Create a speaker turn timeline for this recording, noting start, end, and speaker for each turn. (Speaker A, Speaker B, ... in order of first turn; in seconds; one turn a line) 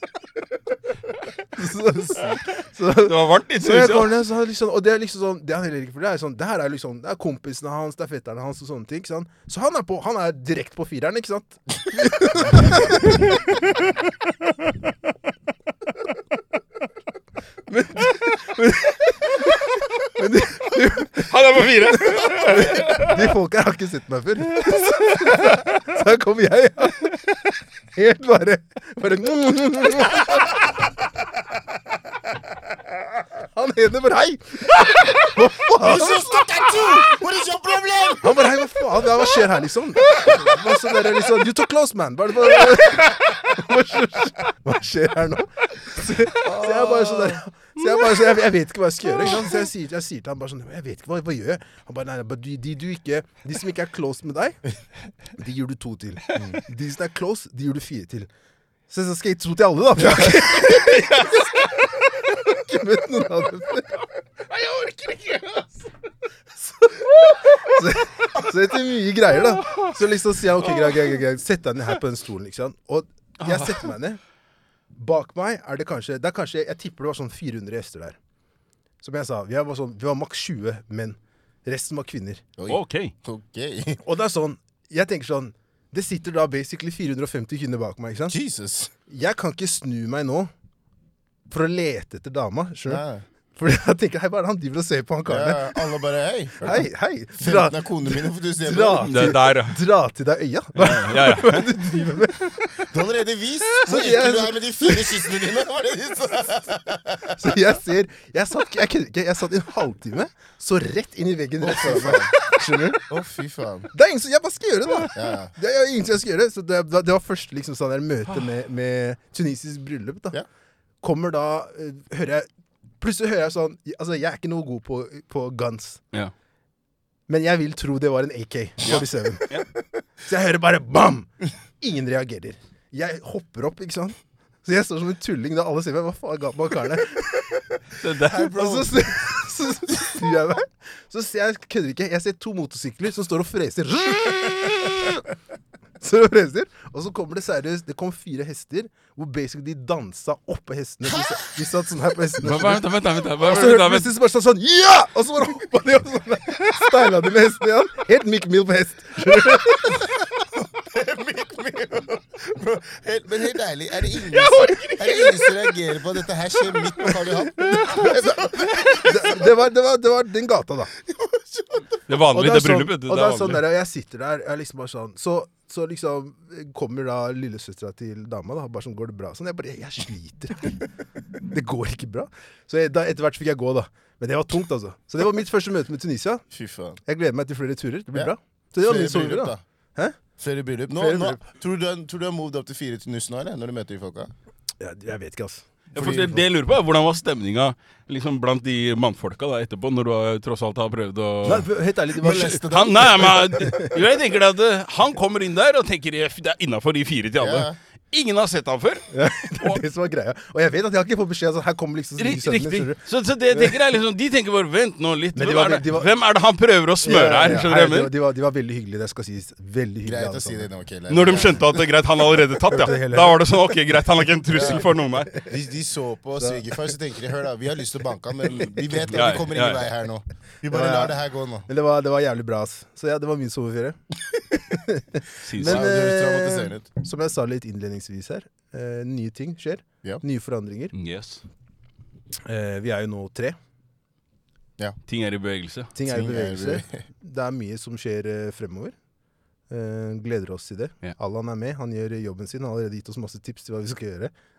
Speaker A: 1.5-13.4
Speaker B: 2.9-4.2
Speaker A: 17.7-27.2
Speaker B: 21.1-23.3
Speaker B: 24.5-25.8
Speaker A: 27.9-30.6
Speaker A: 33.5-37.1
Speaker C: 35.7-38.4
Speaker A: 38.2-54.6
Speaker C: 40.2-40.6
Speaker C: 46.4-47.4
Speaker A: 55.4-58.3
Speaker A: 58.9-64.0
Speaker B: 60.1-62.0
Speaker B: 64.5-65.7
Speaker A: 66.6-74.2
Speaker B: 67.2-67.6
Speaker B: 69.6-70.0
Speaker B: 70.7-71.0
Speaker B: 73.4-73.9
Speaker A: 74.9-78.2
Speaker A: 79.0-82.4
Speaker C: 82.6-84.0
Speaker B: 82.7-83.1
Speaker A: 84.0-88.3
Speaker C: 88.3-88.9
Speaker A: 89.1-90.5
Speaker A: 91.5-93.0
Speaker C: 92.8-93.2
Speaker A: 93.6-96.0
Speaker C: 95.3-96.8
Speaker A: 96.6-102.9
Speaker C: 97.4-99.1
Speaker B: 99.0-99.8
Speaker B: 100.8-101.7
Speaker C: 102.9-107.4
Speaker A: 103.8-105.5
Speaker A: 107.4-113.0
Speaker C: 111.6-112.4
Speaker C: 113.1-113.9
Speaker A: 113.9-120.3
Speaker C: 115.1-115.5
Speaker A: 121.0-122.5
Speaker A: 123.0-126.0
Speaker A: 127.3-129.6
Speaker B: 128.8-129.7
Speaker A: 130.2-145.2
Speaker B: 138.0-138.7
Speaker C: 138.3-138.9
Speaker A: 146.0-160.2
Speaker C: 151.1-151.5
Speaker B: 152.4-154.1
Speaker C: 160.6-169.4
Speaker A: 164.3-165.3
Speaker B: 164.4-165.3
Speaker A: 167.0-168.4
Speaker A: 168.9-170.9
Speaker C: 171.1-171.9
Speaker B: 172.1-173.6
Speaker A: 172.3-180.9
Speaker A: 181.4-186.4
Speaker C: 186.5-187.0
Speaker A: 187.0-190.2
Speaker C: 188.1-189.6
Speaker C: 190.4-194.3
Speaker A: 190.9-191.4
Speaker A: 194.8-196.4
Speaker B: 195.9-201.7
Speaker C: 196.0-196.2
Speaker A: 201.4-203.9
Speaker C: 202.2-204.0
Speaker B: 202.3-209.8
Speaker C: 207.4-207.8
Speaker A: 209.1-213.8
Speaker B: 212.2-218.1
Speaker A: 215.3-216.1
Speaker A: 217.0-220.7
Speaker C: 220.0-221.8
Speaker B: 221.1-225.4
Speaker A: 222.7-223.5
Speaker C: 224.5-231.7
Speaker A: 224.6-225.4
Speaker A: 226.4-226.9
Speaker B: 229.1-229.9
Speaker A: 230.7-234.0
Speaker A: 234.5-240.9
Speaker B: 235.4-235.9
Speaker C: 235.6-236.9
Speaker B: 240.9-241.4
Speaker A: 242.4-243.6
Speaker B: 245.1-245.9
Speaker A: 245.9-248.9
Speaker C: 246.1-247.0
Speaker A: 249.7-254.3